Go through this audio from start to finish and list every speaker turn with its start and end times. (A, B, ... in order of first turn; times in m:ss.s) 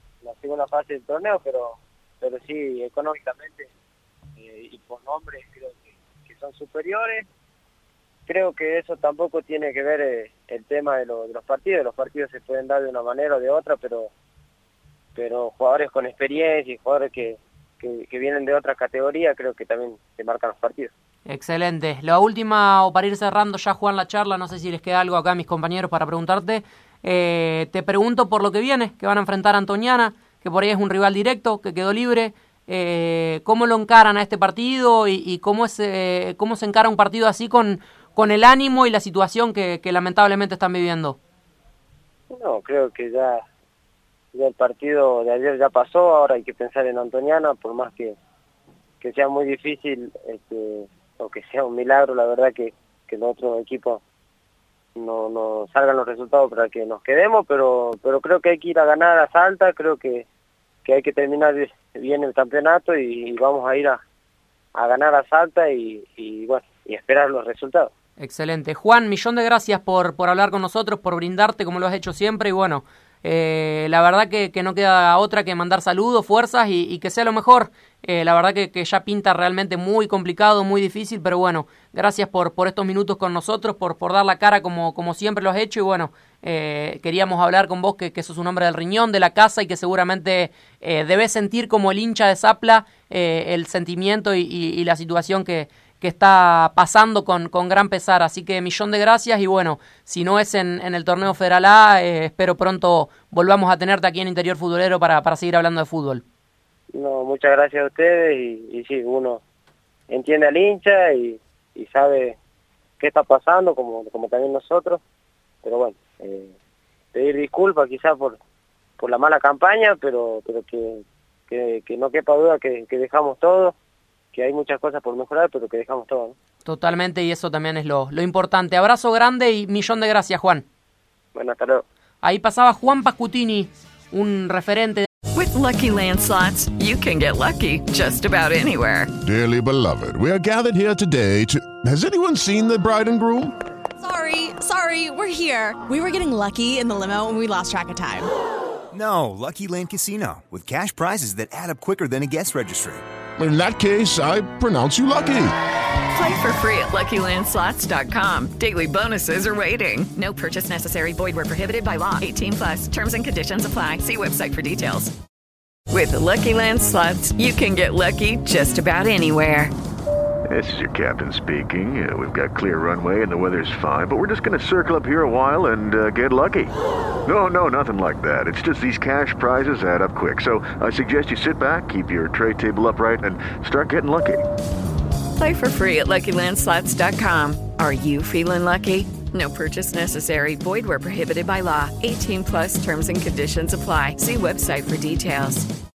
0:00.2-0:03.7 A
0:04.4-0:07.2 A
0:08.3-0:14.1 A
0:15.1-0:20.9 A
0:21.3-0:41.2 B
0:42.3-0:43.4 A
0:44.3-0:48.2 A
0:49.0-0:54.0 A
0:55.0-1:00.3 A
1:00.8-1:04.0 A
1:04.7-1:07.9 A
1:08.2-1:46.2 B
1:46.9-1:49.4 A
1:50.1-1:52.4 A
1:53.0-1:55.0 A
1:55.6-1:56.5 A
1:57.1-1:58.4 A
1:59.0-2:03.7 A
2:04.3-2:06.3 A
2:06.6-2:10.6 B
2:11.3-2:11.8 A
2:12.2-2:15.1 B
2:15.3-2:19.1 C
2:19.2-2:23.5 D
2:24.0-2:28.3 E
2:28.9-2:33.0 F
2:33.4-2:35.5 D
2:36.1-2:45.1 C
2:45.9-2:49.7 C
2:50.5-2:56.7 G
2:57.2-3:04.4 G
3:05.4-3:15.7 C